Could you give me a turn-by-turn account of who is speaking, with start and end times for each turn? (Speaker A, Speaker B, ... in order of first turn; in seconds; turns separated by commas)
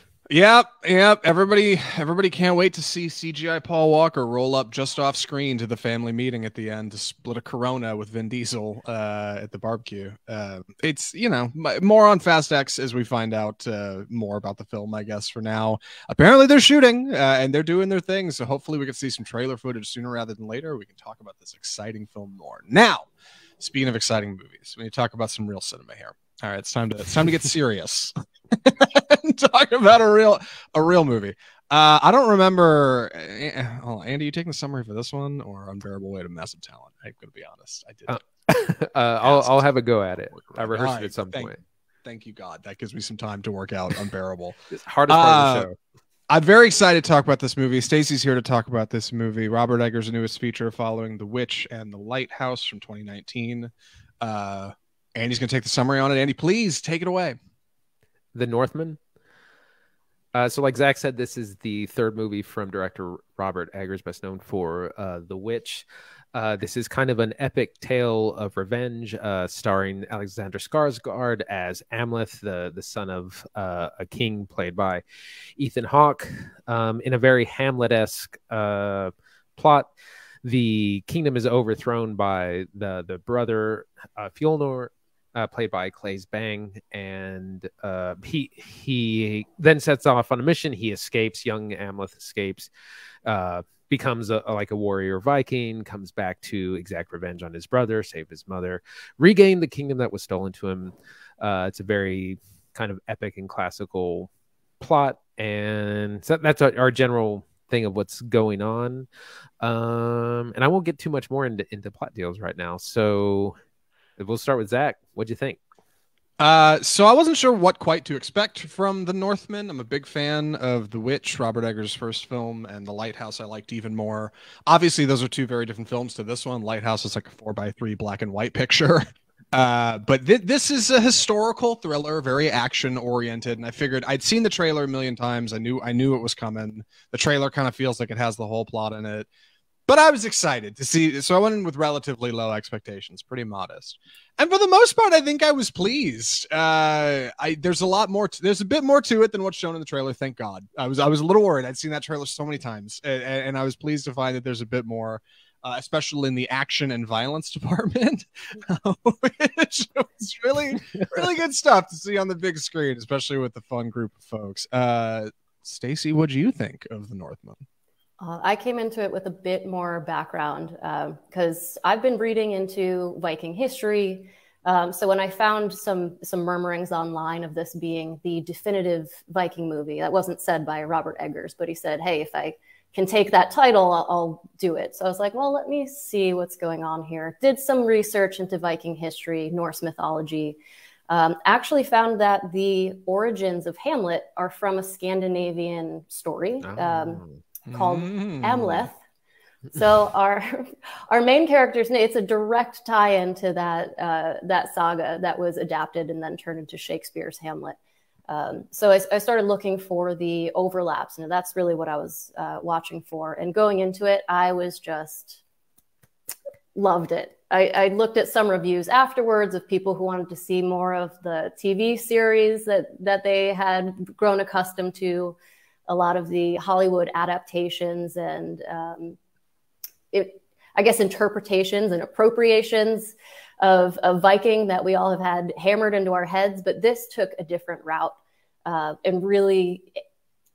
Speaker A: 0.3-23.1, Speaker A: 23.6-38.2, Speaker B: 38.1-41.5, Speaker A: 39.2-39.7, Speaker A: 40.5-41.5, Speaker A: 42.0-44.5, Speaker B: 44.7-45.8, Speaker A: 45.1-45.7, Speaker A: 46.3-57.4, Speaker B: 58.3-59.0, Speaker B: 60.3-75.0, Speaker B: 75.6-79.9, Speaker B: 80.4-92.7, Speaker B: 93.2-109.1, Speaker B: 109.6-113.6, Speaker B: 114.2-115.6, Speaker A: 116.4-139.3, Speaker A: 139.9-167.6, Speaker C: 168.2-190.6, Speaker C: 191.1-197.2, Speaker B: 196.6-197.4, Speaker A: 197.7-198.9, Speaker C: 197.7-199.0, Speaker C: 199.7-207.8, Speaker C: 208.3-215.4, Speaker C: 216.7-225.3, Speaker C: 225.9-229.2, Speaker C: 230.1-239.9